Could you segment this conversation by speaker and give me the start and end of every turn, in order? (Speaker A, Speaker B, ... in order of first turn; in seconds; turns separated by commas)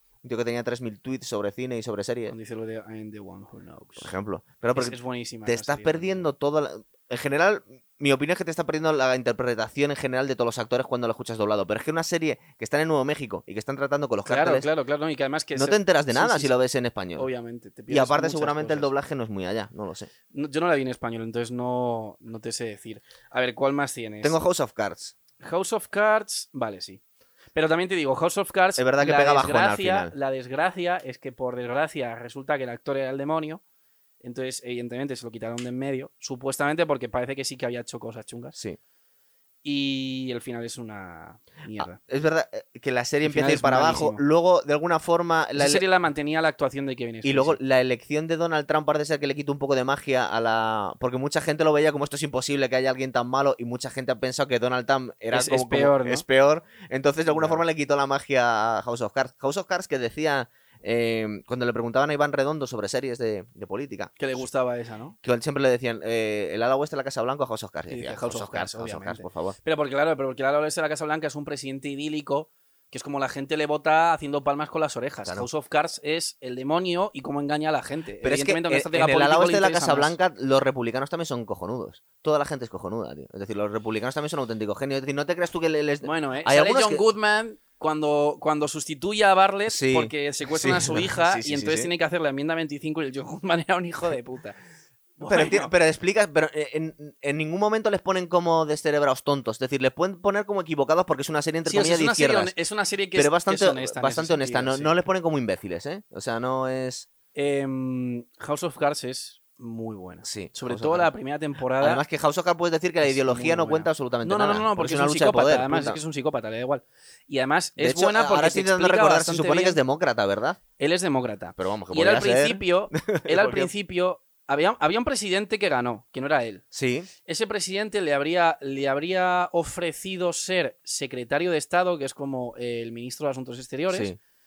Speaker A: 0.2-2.3, Speaker B: 2.3-4.1, Speaker A: 4.0-14.7, Speaker B: 4.7-6.3, Speaker B: 14.2-16.5, Speaker A: 15.5-17.3, Speaker B: 17.1-18.9, Speaker A: 17.9-20.1, Speaker B: 20.3-24.4, Speaker A: 24.2-25.1, Speaker B: 25.4-27.0, Speaker B: 27.5-33.6, Speaker A: 28.8-30.1, Speaker B: 34.2-38.5, Speaker B: 39.6-42.0, Speaker A: 41.8-45.8, Speaker B: 43.2-44.2, Speaker B: 45.5-47.6, Speaker A: 47.2-64.1, Speaker B: 55.3-56.2, Speaker B: 57.3-57.6, Speaker B: 64.2-65.2, Speaker A: 65.2-69.5, Speaker B: 67.9-80.2, Speaker A: 78.2-87.0, Speaker B: 86.0-94.6, Speaker A: 89.7-91.9, Speaker B: 95.2-95.7, Speaker A: 95.2-102.5, Speaker B: 101.7-104.9, Speaker A: 103.1-107.1, Speaker B: 107.3-112.0, Speaker A: 110.2-111.1, Speaker A: 111.8-116.0, Speaker B: 113.0-119.8, Speaker A: 117.8-120.6, Speaker B: 120.8-126.6, Speaker A: 121.6-123.7, Speaker A: 126.7-127.1, Speaker B: 127.2-134.1, Speaker A: 133.9-134.2